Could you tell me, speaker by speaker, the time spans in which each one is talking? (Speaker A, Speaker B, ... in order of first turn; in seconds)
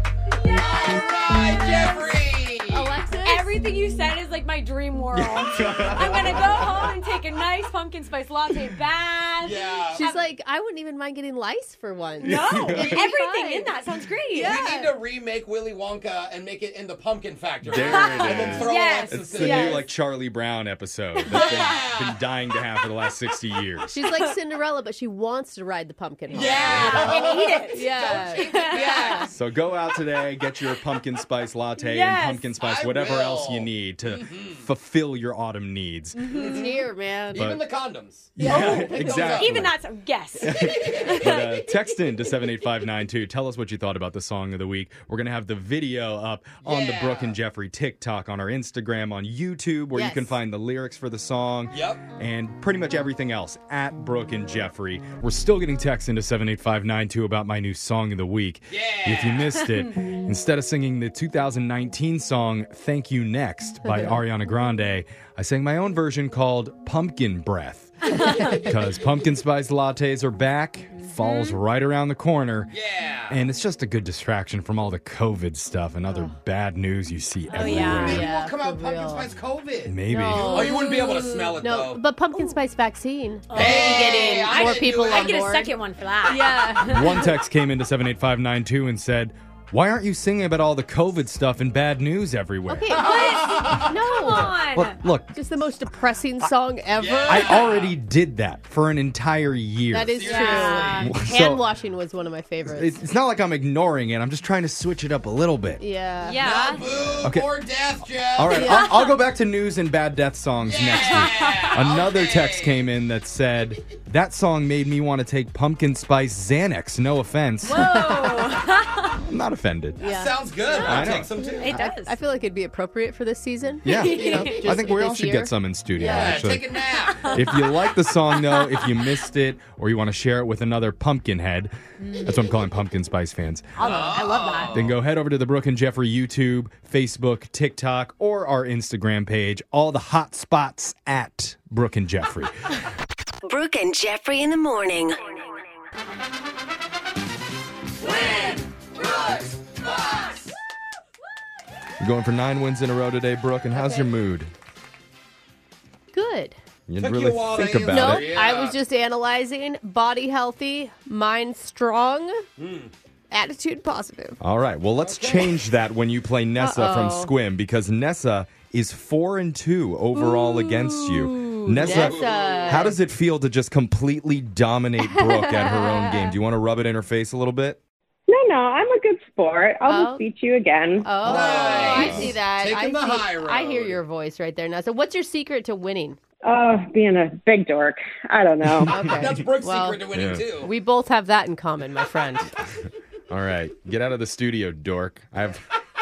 Speaker A: 0.4-2.9, 9.4-10.0, 14.3-19.9, 21.3-22.2, 26.3-29.3, 32.6-34.6, 36.2-39.7, 40.8-41.1, 46.6-47.4, 51.7-52.0, 58.7-59.5, 72.7-73.4, 77.5-82.0, 83.5-85.4, 92.9-94.0, 97.0-97.9, 100.1-101.1, 106.4-108.8, 110.6-112.8, 120.0-121.9, 126.0-127.4, 133.8-135.0, 148.0-150.5, 157.0-158.8, 162.6-162.9, 165.0-165.6, 171.8-172.9, 181.2-184.0, 189.1-190.7
Speaker B: 0.4-1.0, 3.2-10.2, 12.2-14.7, 17.8-19.7, 21.3-21.7, 26.3-29.3, 31.8-32.5, 36.2-36.7, 38.4-42.2, 71.2-71.5, 77.5-78.2, 83.5-87.3, 92.9-95.0, 100.3-100.8, 106.2-106.8, 110.9-111.7, 117.6-119.2, 120.8-121.1, 121.6-122.1, 123.9-124.7, 127.1-127.8, 128.3-128.9, 132.0-132.4
Speaker C: 2.7-3.5, 9.9-13.8, 14.3-14.9, 19.4-19.9, 23.9-29.3, 36.3-37.5, 49.9-50.4, 77.5-79.3, 80.1-85.7, 86.3-86.8, 92.7-94.7, 95.3-97.8, 99.9-103.0, 105.8-106.7, 108.5-109.1, 117.7-118.6, 120.0-126.5, 133.8-134.8, 153.7-154.1, 156.1-156.6, 157.8-162.4, 163.3-164.4, 166.6-167.3, 170.1-173.0, 175.0-176.3, 179.8-180.2, 181.0-186.2, 188.9-192.5
Speaker D: 5.1-6.8, 12.2-13.0, 17.6-23.9, 26.6-27.1, 29.3-36.2, 37.4-37.6, 38.4-39.8, 40.4-72.7, 73.3-78.2, 79.8-80.7, 86.8-92.9, 94.7-95.3, 97.2-101.6, 102.7-105.8, 107.2-107.5, 108.3-118.3, 119.2-120.0, 120.8-121.3, 123.8-133.8, 134.7-142.7, 152.0-154.5, 156.9-158.3, 164.4-177.8, 181.9-182.3, 190.1-190.4, 193.3-195.6
Speaker E: 143.4-145.6
Speaker F: 178.3-182.0, 186.4-188.9